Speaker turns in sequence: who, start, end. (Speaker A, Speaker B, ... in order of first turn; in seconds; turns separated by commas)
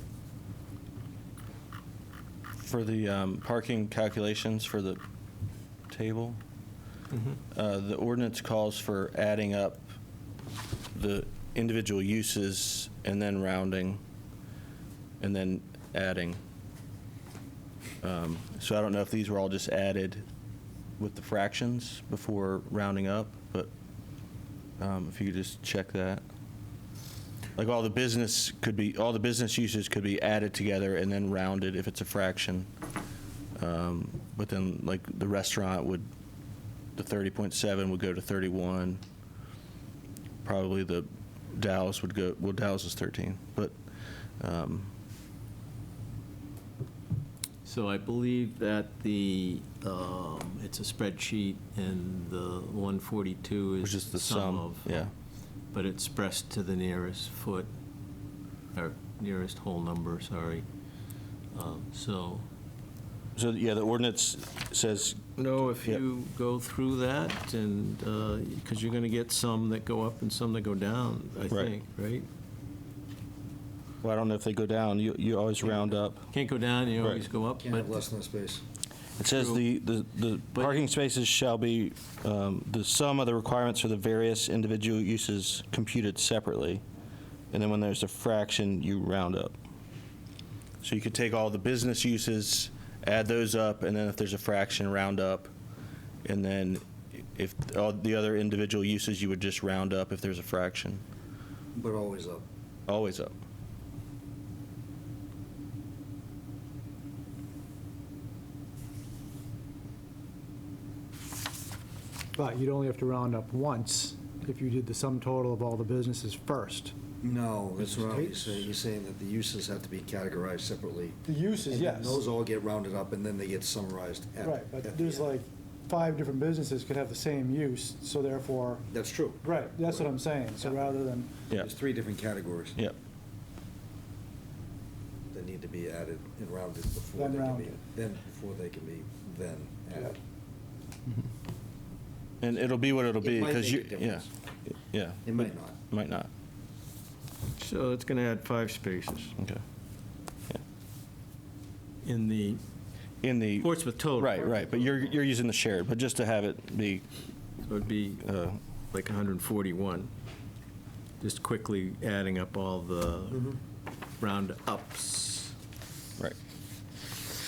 Speaker A: 2.6-5.0, Speaker A: 5.9-6.4, Speaker B: 7.1-7.4, Speaker A: 7.5-9.8, Speaker A: 10.9-14.0, Speaker A: 15.2-16.4, Speaker A: 18.0-20.2, Speaker A: 21.0-23.7, Speaker A: 24.8-26.2, Speaker A: 27.6-32.7, Speaker A: 33.6-36.1, Speaker A: 37.0-39.0, Speaker A: 40.5-43.8, Speaker A: 44.4-44.9, Speaker B: 47.6-55.0, Speaker A: 53.8-55.1, Speaker B: 55.7-57.7, Speaker B: 58.7-60.6, Speaker B: 61.5-62.5, Speaker A: 63.4-65.2, Speaker B: 65.4-72.3, Speaker A: 74.0-76.3, Speaker B: 75.6-78.0, Speaker A: 77.0-77.2, Speaker C: 77.6-78.6, Speaker A: 79.2-86.8, Speaker B: 79.2-79.6, Speaker B: 80.5-80.8, Speaker A: 87.5-89.6, Speaker A: 90.8-95.5, Speaker A: 96.2-96.8, Speaker A: 97.3-101.0, Speaker C: 101.8-102.5, Speaker A: 102.9-103.3, Speaker D: 112.3-116.9, Speaker C: 117.2-125.3, Speaker D: 117.8-118.7, Speaker D: 121.3-122.2, Speaker D: 124.4-128.9, Speaker C: 128.9-130.1, Speaker D: 129.4-131.3, Speaker C: 130.6-130.9, Speaker C: 131.5-132.8, Speaker C: 135.3-140.2, Speaker D: 137.1-137.8, Speaker A: 142.4-146.3, Speaker C: 143.2-144.3, Speaker C: 145.2-145.8, Speaker B: 147.6-149.3, Speaker B: 152.0-152.6, Speaker A: 153.2-157.0, Speaker B: 153.6-155.1, Speaker B: 157.7-158.3, Speaker A: 158.2-158.6, Speaker B: 158.9-160.1, Speaker B: 161.2-163.6, Speaker B: 164.2-165.5